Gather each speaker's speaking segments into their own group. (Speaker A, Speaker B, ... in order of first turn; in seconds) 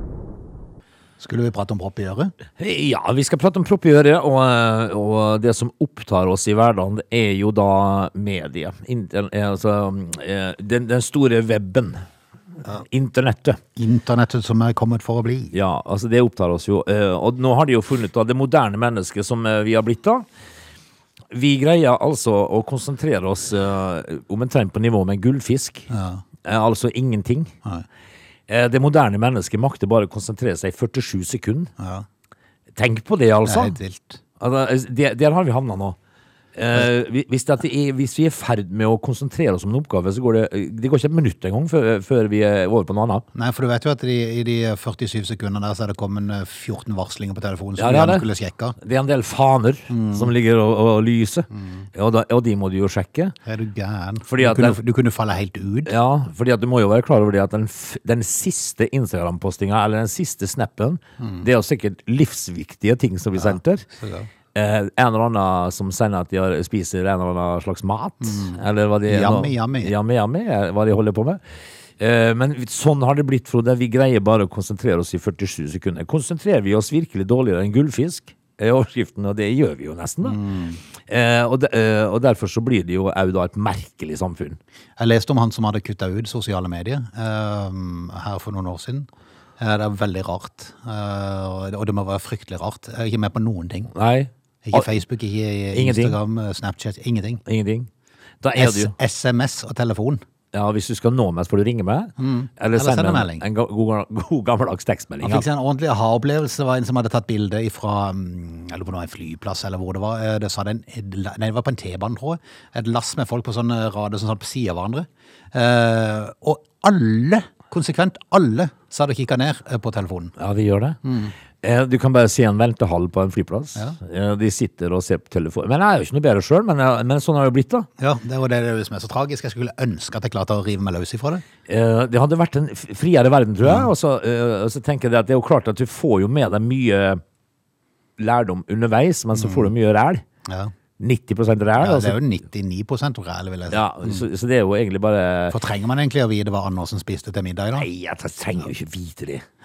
Speaker A: 1.2-2.3, 13.8-15.5, 25.9-26.2, 31.8-32.0, 33.4-34.2, 43.3-48.8, 49.9-50.3, 51.5-51.8, 53.5-55.9, 61.2-61.4, 63.4-64.3, 68.2-69.9, 80.2-80.8, 85.0-89.1, 89.6-93.9, 94.6-97.4, 98.5-100.2, 102.2-103.4, 105.2-120.3, 121.0-121.3, 128.0-131.4, 133.6-133.9, 139.3-139.7, 140.4-140.7, 141.8-144.2, 145.5-147.9
Speaker B: 2.6-12.0, 12.8-13.6, 15.5-20.2, 21.3-25.9, 26.4-27.5, 28.5-31.7, 32.7-33.8, 34.4-36.0, 36.5-43.2, 47.8-48.3, 48.8-53.3, 54.3-54.8, 55.9-63.9, 64.5-71.4, 72.0-80.4, 81.1-84.6, 93.9-94.9, 95.7-96.2, 97.5-97.9, 98.4-98.9, 100.5-105.5, 120.4-121.0, 121.6-127.9, 131.7-137.2, 138.2-140.2, 141.0-142.2, 143.7-145.6, 147.8-149.4